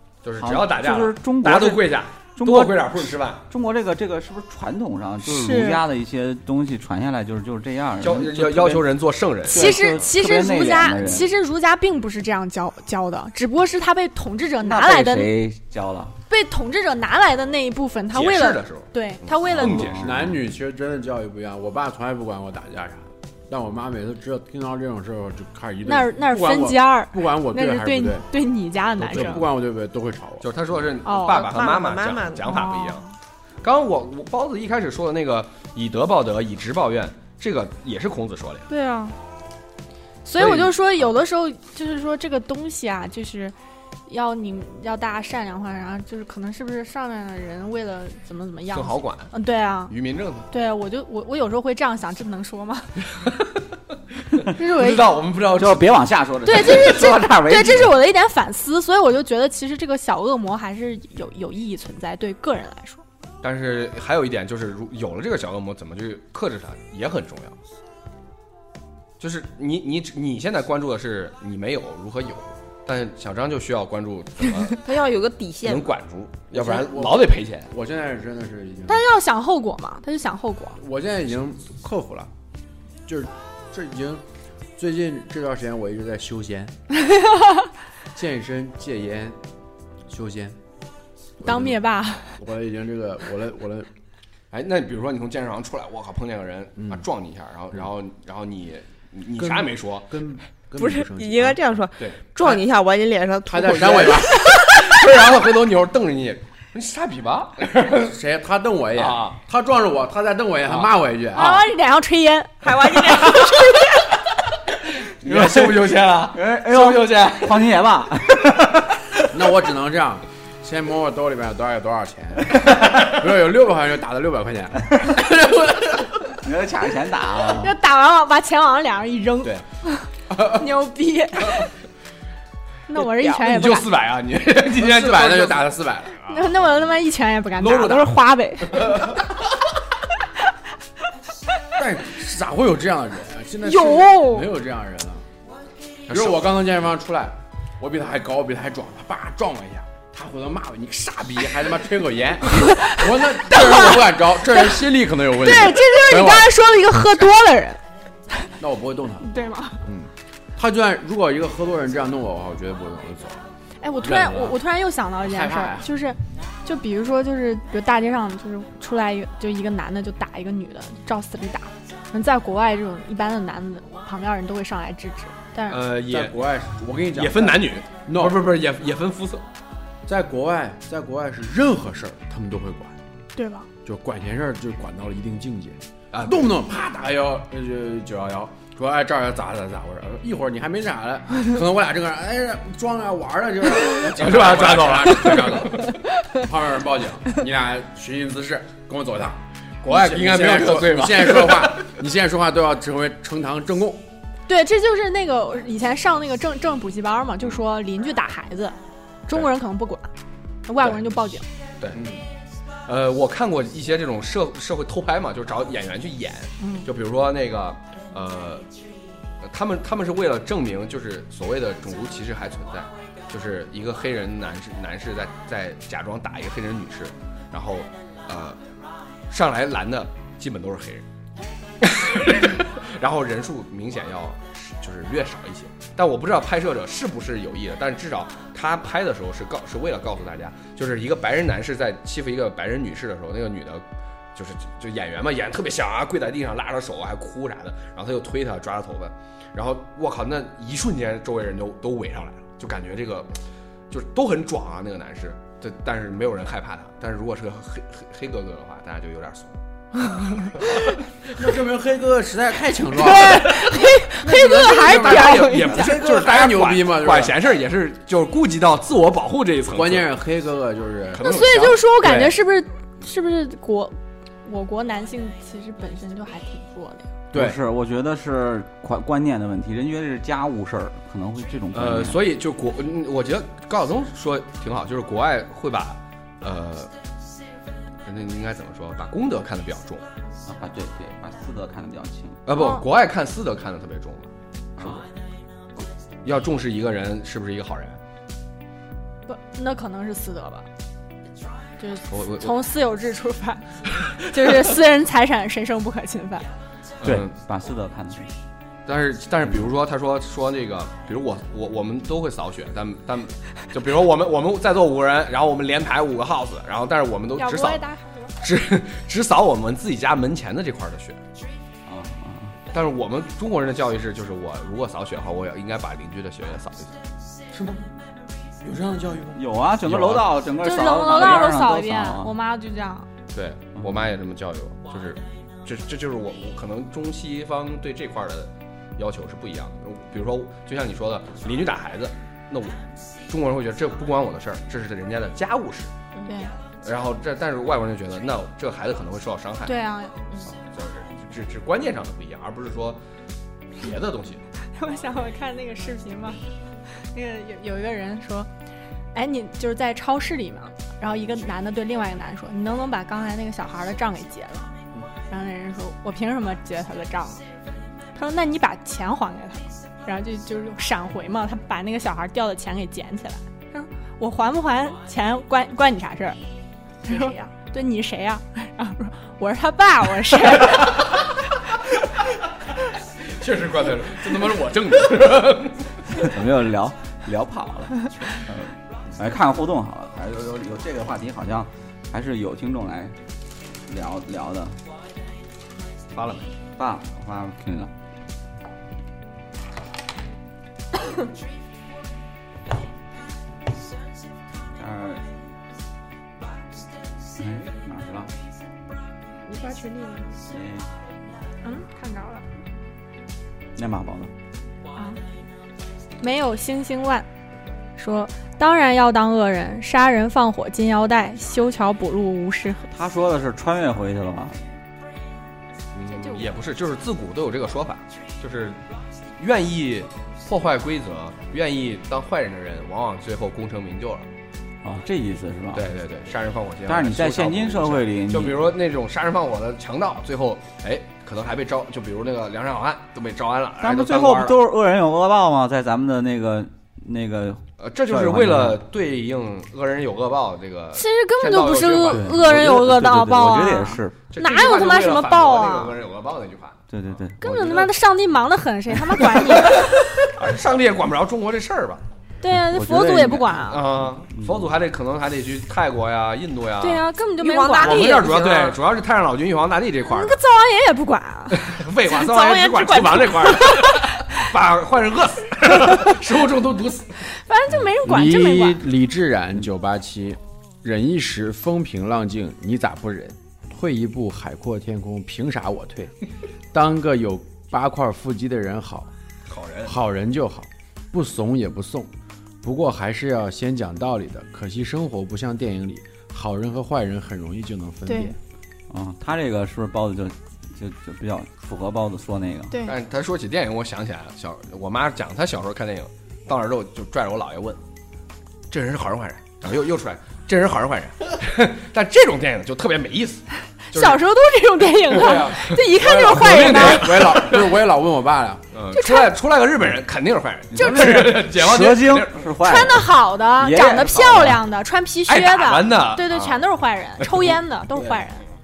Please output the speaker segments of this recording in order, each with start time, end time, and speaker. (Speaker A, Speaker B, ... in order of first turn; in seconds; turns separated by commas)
Speaker A: 0.2-3.5, Speaker B: 0.4-1.9, Speaker B: 2.4-3.0, Speaker B: 3.5-8.9, Speaker C: 5.2-5.8, Speaker A: 8.0-10.0, Speaker B: 9.4-11.3, Speaker C: 9.5-15.3, Speaker B: 14.6-16.1, Speaker C: 16.3-20.0, Speaker A: 18.1-20.3, Speaker D: 19.8-28.3, Speaker C: 25.8-29.5, Speaker D: 29.0-30.4, Speaker A: 29.1-29.4, Speaker A: 30.4-33.0, Speaker C: 31.0-31.6, Speaker E: 31.2-32.8, Speaker C: 32.5-32.9, Speaker A: 33.6-38.7, Speaker C: 38.7-39.1, Speaker C: 40.2-43.5, Speaker A: 40.4-41.1, Speaker C: 44.1-49.9, Speaker A: 48.7-49.3, Speaker A: 49.9-50.5, Speaker C: 50.5-53.0, Speaker A: 53.1-53.6, Speaker A: 54.3-56.0, Speaker C: 54.5-55.1, Speaker B: 55.5-58.0, Speaker C: 56.4-63.0, Speaker A: 63.4-67.6, Speaker A: 69.2-74.8, Speaker E: 74.8-75.9, Speaker A: 75.6-77.7, Speaker D: 76.5-79.0, Speaker C: 78.9-80.8, Speaker D: 80.8-82.3, Speaker D: 83.1-84.2, Speaker D: 84.8-86.7, Speaker C: 87.2-87.5, Speaker D: 88.1-89.4, Speaker D: 90.1-90.6, Speaker D: 91.4-91.8, Speaker C: 91.4-92.4, Speaker D: 92.4-93.9, Speaker A: 94.5-100.1, Speaker D: 96.8-97.0, Speaker D: 99.4-101.6, Speaker E: 100.8-104.8, Speaker D: 103.5-104.5, Speaker A: 104.5-108.1, Speaker D: 107.9-111.6, Speaker A: 108.9-109.4, Speaker C: 111.3-113.5, Speaker E: 112.6-113.8, Speaker A: 115.0-117.7, Speaker B: 115.2-119.2, Speaker D: 119.3-126.1, Speaker B: 126.3-127.7, Speaker C: 127.5-131.7, Speaker D: 130.3-130.7, Speaker C: 132.9-133.9, Speaker A: 133.0-136.5, Speaker D: 134.7-136.3, Speaker C: 136.3-139.1, Speaker A: 137.6-138.2, Speaker D: 141.8-145.2, Speaker C: 143.6-144.5, Speaker A: 146.1-146.4, Speaker D: 146.1-156.5, Speaker C: 152.6-154.7, Speaker C: 155.3-157.8, Speaker D: 158.6-159.3, Speaker C: 159.2-159.8, Speaker D: 159.8-163.4, Speaker C: 163.8-175.8, Speaker D: 164.0-164.6, Speaker D: 165.2-165.9, Speaker A: 175.7-176.3, Speaker D: 176.0-178.5, Speaker A: 177.1-179.4, Speaker D: 180.1-183.0, Speaker C: 183.3-183.7, Speaker D: 183.8-204.0, Speaker A: 186.1-186.5, Speaker A: 193.8-195.9, Speaker A: 199.8-201.9, Speaker C: 204.5-208.8, Speaker C: 209.3-210.1, Speaker C: 210.7-211.4, Speaker D: 211.9-212.2, Speaker A: 212.8-218.7, Speaker C: 216.6-216.8, Speaker A: 219.4-228.6, Speaker A: 229.3-231.1, Speaker A: 231.8-243.8, Speaker A: 244.3-253.4, Speaker A: 253.9-259.6, Speaker A: 260.2-260.8, Speaker D: 261.4-267.4, Speaker C: 263.0-266.0, Speaker A: 264.8-270.1, Speaker D: 269.7-271.8, Speaker A: 271.1-272.4, Speaker C: 271.2-277.1, Speaker D: 277.3-277.6, Speaker B: 277.3-282.2, Speaker A: 281.7-286.9, Speaker A: 288.0-290.1, Speaker B: 290.4-292.4, Speaker A: 292.4-295.1, Speaker C: 292.5-292.8, Speaker B: 294.8-295.0, Speaker A: 296.2-298.0, Speaker C: 299.2-300.7, Speaker C: 301.8-306.5, Speaker A: 302.1-302.6, Speaker A: 307.0-307.3, Speaker B: 307.0-308.4, Speaker A: 308.9-317.8, Speaker C: 317.4-318.3, Speaker A: 318.4-321.2, Speaker B: 321.9-322.5, Speaker A: 322.7-326.9, Speaker D: 327.5-327.8, Speaker D: 328.6-330.2, Speaker B: 329.3-332.3, Speaker C: 330.6-333.1, Speaker A: 333.3-345.9, Speaker C: 346.2-346.5, Speaker A: 346.8-349.8, Speaker C: 349.6-350.4, Speaker A: 350.4-353.0, Speaker A: 353.8-354.4, Speaker C: 354.7-356.4, Speaker C: 357.0-358.5, Speaker C: 359.1-364.7, Speaker C: 365.3-367.4, Speaker C: 368.1-376.4, Speaker C: 377.0-381.4, Speaker A: 383.2-386.3, Speaker B: 386.1-393.1, Speaker B: 393.9-394.8, Speaker A: 396.1-396.5, Speaker B: 396.8-397.9, Speaker B: 404.8-405.2, Speaker B: 407.4-408.3, Speaker E: 409.5-410.3, Speaker B: 410.4-410.9, Speaker C: 411.6-412.4, Speaker B: 413.8-414.3, Speaker C: 414.9-415.2, Speaker C: 416.2-417.3, Speaker C: 418.0-422.9, Speaker B: 422.9-424.6, Speaker A: 426.0-428.8, Speaker C: 426.2-426.4, Speaker A: 429.4-434.3, Speaker B: 434.8-435.9, Speaker A: 435.7-444.6, Speaker B: 436.9-438.7, Speaker B: 443.8-448.8, Speaker A: 447.8-452.4, Speaker C: 450.9-456.0, Speaker B: 452.1-454.2, Speaker A: 454.3-457.6, Speaker B: 456.9-457.8, Speaker C: 457.4-460.3, Speaker A: 459.3-462.0, Speaker C: 462.4-463.9, Speaker B: 462.4-463.6, Speaker A: 463.7-467.1, Speaker B: 464.3-464.7, Speaker C: 466.8-468.3, Speaker E: 467.4-468.8, Speaker A: 467.8-470.4, Speaker C: 470.1-474.3, Speaker A: 471.5-477.2, Speaker C: 477.3-478.8, Speaker D: 478.0-486.1, Speaker D: 486.7-489.1, Speaker A: 489.5-489.9, Speaker D: 489.8-492.1, Speaker D: 492.6-498.4, Speaker C: 498.1-498.3, Speaker B: 498.9-502.7, Speaker C: 502.7-502.9, Speaker A: 502.9-507.8, Speaker A: 508.7-514.2, Speaker C: 513.9-517.1, Speaker D: 515.1-518.6, Speaker A: 515.2-517.8, Speaker A: 518.7-522.5, Speaker C: 518.9-519.3, Speaker B: 520.7-524.6, Speaker C: 520.7-521.4, Speaker C: 522.6-528.4, Speaker A: 525.3-526.6, Speaker D: 527.9-528.2